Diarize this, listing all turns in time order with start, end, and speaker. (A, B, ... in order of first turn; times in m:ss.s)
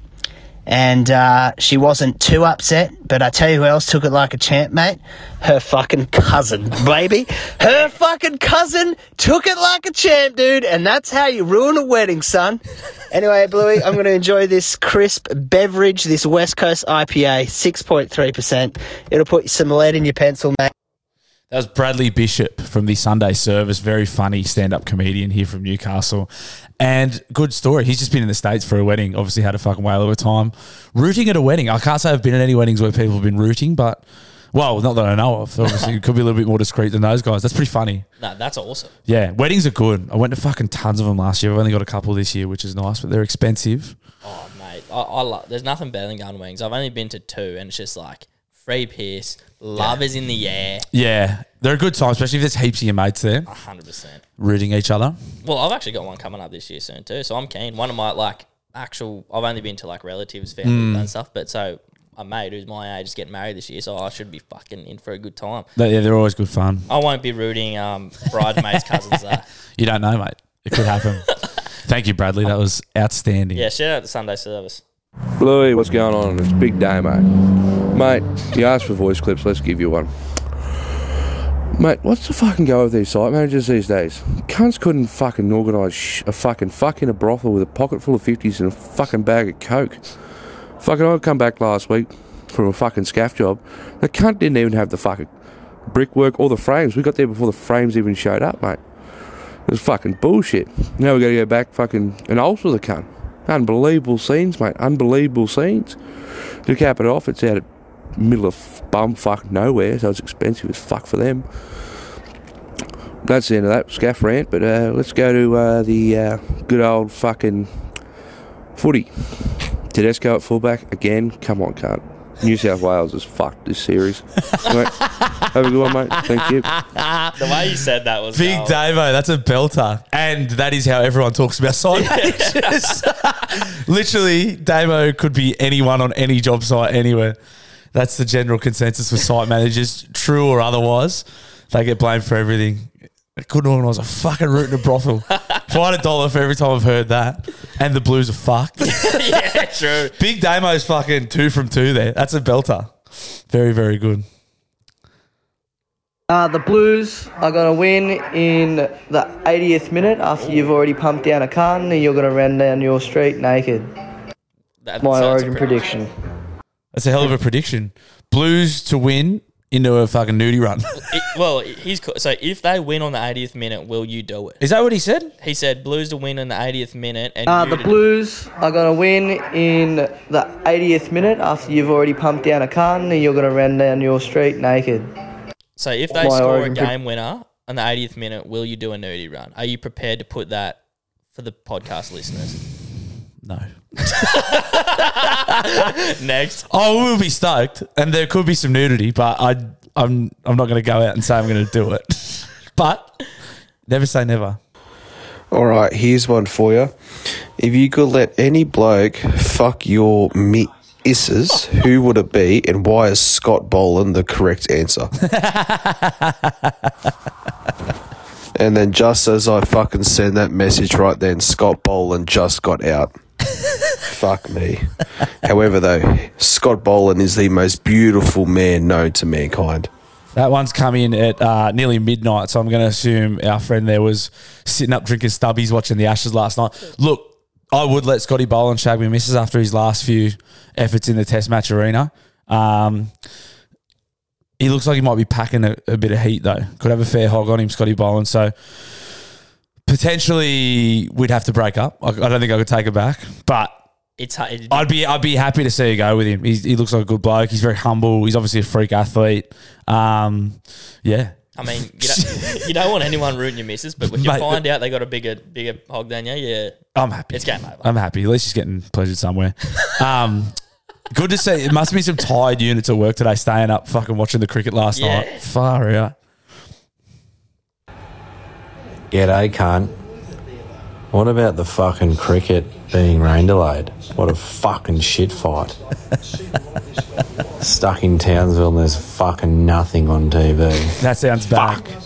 0:00.7-0:20.7 A
0:21.5-0:26.3 B
0:26.8-0:38.0 B
0:35.6-0:35.9 C
0:38.2-0:38.9 C
0:39.1-0:44.0 B
0:44.2-0:50.9 C
0:50.9-0:53.5 B
0:53.5-0:54.2 C
0:54.4-0:55.2 B
0:55.4-1:05.7 C
1:00.6-1:01.1 B
1:05.8-1:06.9 B
1:06.9-1:09.5 C
1:09.8-1:13.7 B
1:13.5-1:14.8 C
1:15.4-1:17.3 D
1:17.9-1:20.1 D
1:21.8-1:30.2 D
1:30.8-1:35.3 D
1:35.9-1:51.8 D
1:53.2-1:58.0 D
1:58.8-2:05.0 D
2:04.6-2:04.9 C
2:04.9-2:05.5 B
2:05.5-2:06.7 D
2:06.7-2:07.6 B
2:07.4-2:08.8 C
2:08.3-2:17.4 B
2:11.9-2:13.1 C
2:17.9-2:29.6 B
2:28.8-2:30.2 C
2:30.2-2:33.0 B
2:33.5-2:34.3 B
2:36.3-2:43.9 E
2:44.8-2:46.0 C
2:45.0-2:46.1 E
2:46.9-2:51.0 B
2:51.0-2:54.6 C
2:54.6-2:55.3 B
2:55.4-2:57.9 C
2:57.5-3:05.1 E
3:05.8-3:10.8 C
3:06.1-3:06.9 E
3:11.3-3:12.6 C
3:13.4-3:15.7 B
3:14.2-3:16.7 C
3:16.7-3:23.2 B
3:23.9-3:24.6 B
3:25.5-3:26.9 F
3:27.6-3:35.1 F
3:35.2-3:36.9 B
3:38.6-3:43.1 F
3:44.1-3:44.9 F
3:45.4-3:49.9 F
3:50.4-4:03.1 B
4:04.6-4:08.5 B
4:09.9-4:13.8 B
4:14.2-4:14.9 C
4:14.7-4:22.8 B
4:21.6-4:26.8 C
4:24.0-4:24.6 B
4:27.0-4:30.6 B
4:27.3-4:27.9 C
4:31.1-4:36.2 B
4:34.9-4:35.5 C
4:39.1-4:40.0 G
4:41.1-4:45.8 G
4:47.6-4:51.0 G
4:51.0-4:51.9 B